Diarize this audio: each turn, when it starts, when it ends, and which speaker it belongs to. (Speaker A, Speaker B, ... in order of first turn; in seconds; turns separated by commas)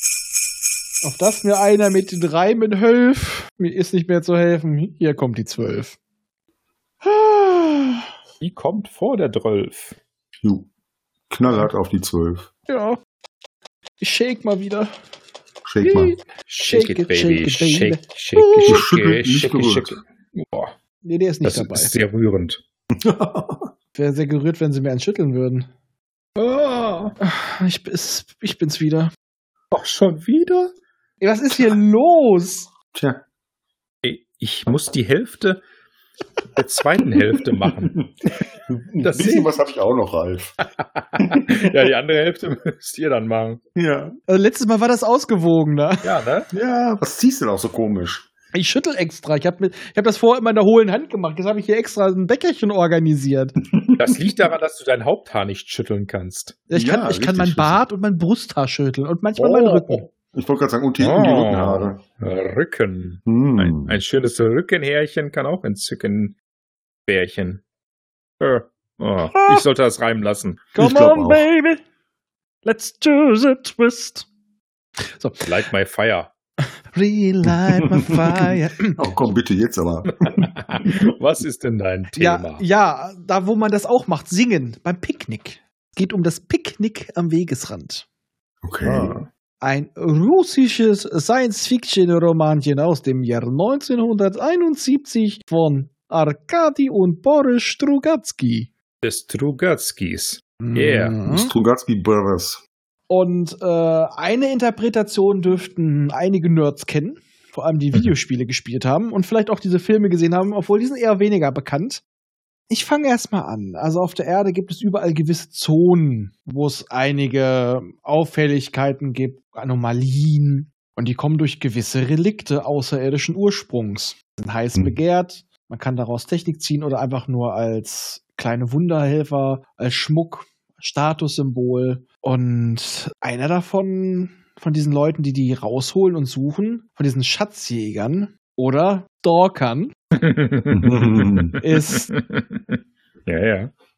Speaker A: 1.0-6.0, Speaker A: 7.0-8.0, Speaker B: 8.4-10.0, Speaker C: 10.4-10.7, Speaker C: 11.3-12.5, Speaker A: 12.7-13.0, Speaker A: 14.0-14.9, Speaker C: 15.7-16.2, Speaker A: 15.8-18.9, Speaker B: 16.4-20.7, Speaker C: 18.7-20.0, Speaker A: 21.0-21.9, Speaker B: 21.4-22.6, Speaker C: 23.0-23.7, Speaker A: 23.9-25.7, Speaker B: 26.4-27.1, Speaker A: 27.2-29.1, Speaker B: 29.7-30.7, Speaker A: 31.2-32.7, Speaker C: 32.9-33.2, Speaker B: 34.0-35.6, Speaker B: 36.6-38.3, Speaker C: 38.7-40.6, Speaker B: 39.0-39.7, Speaker B: 40.8-43.6, Speaker C: 41.2-41.9, Speaker C: 43.8-44.2, Speaker A: 44.3-46.2, Speaker B: 46.0-46.5, Speaker C: 46.5-48.3, Speaker A: 48.5-53.5, Speaker C: 53.7-54.2, Speaker B: 54.0-56.6, Speaker A: 56.7-60.1, Speaker C: 56.7-57.8, Speaker C: 59.4-62.0, Speaker B: 61.0-66.4, Speaker C: 63.3-64.0, Speaker B: 67.1-67.6, Speaker B: 68.4-70.6, Speaker A: 69.3-69.6, Speaker A: 70.7-71.8, Speaker C: 70.8-71.5, Speaker A: 72.6-74.3, Speaker A: 75.1-75.4, Speaker B: 75.4-76.3, Speaker A: 76.9-79.0, Speaker C: 79.0-80.4, Speaker B: 80.2-82.6, Speaker A: 82.2-88.1, Speaker C: 88.6-89.2, Speaker B: 88.8-89.3, Speaker A: 89.6-98.7, Speaker B: 99.0-101.2, Speaker A: 100.6-101.5, Speaker C: 101.2-102.6, Speaker A: 103.1-112.0, Speaker A: 112.7-139.9, Speaker B: 140.2-143.7, Speaker C: 140.7-141.6, Speaker A: 141.6-142.1